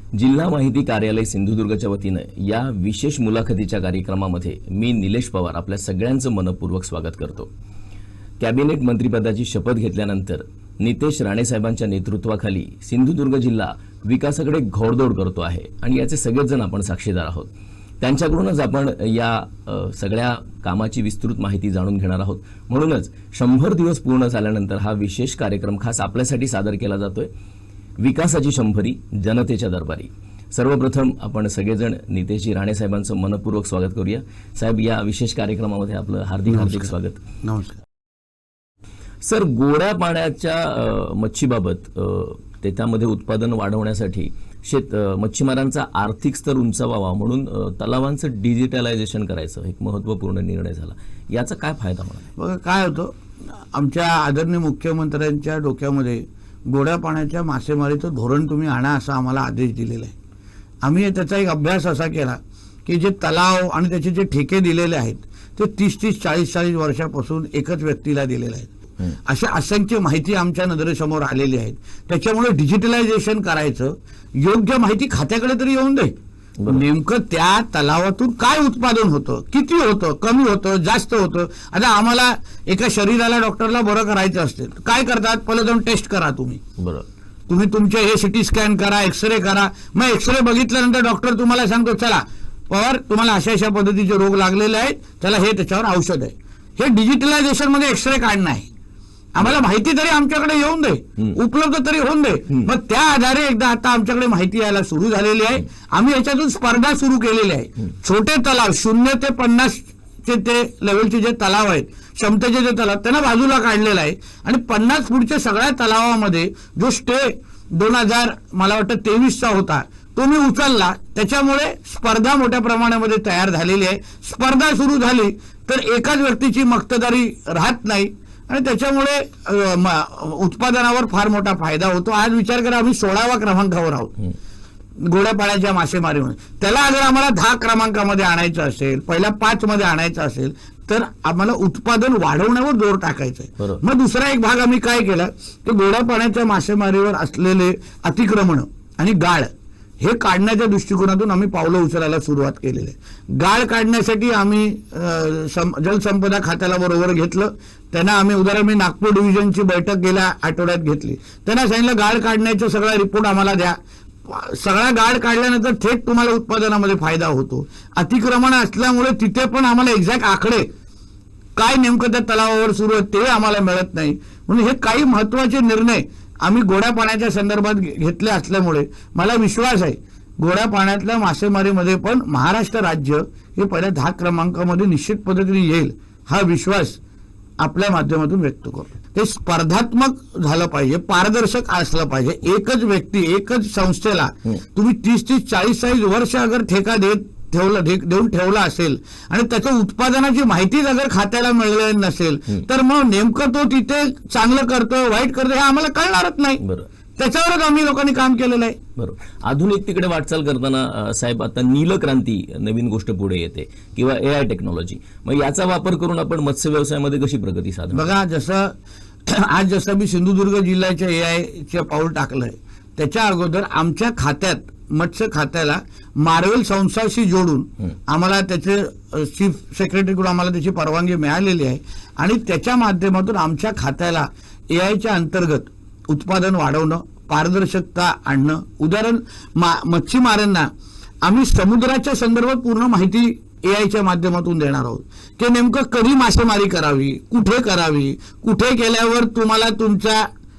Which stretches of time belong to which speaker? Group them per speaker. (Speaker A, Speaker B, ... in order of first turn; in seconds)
Speaker A: 0.1-7.5, 8.4-27.3, 28.0-37.2, 39.2-52.2, 86.8-87.1, 206.6-206.9, 209.0-218.1
Speaker B: 36.5-36.9, 37.4-37.8, 52.4-53.1, 53.7-60.1, 60.8-68.7, 69.2-76.1, 76.7-86.6, 87.5-98.7, 99.3-134.2, 135.0-149.5, 150.0-170.7, 171.6-187.0, 187.6-206.6, 207.2-208.8, 217.9-218.7, 219.3-240.7, 241.2-250.3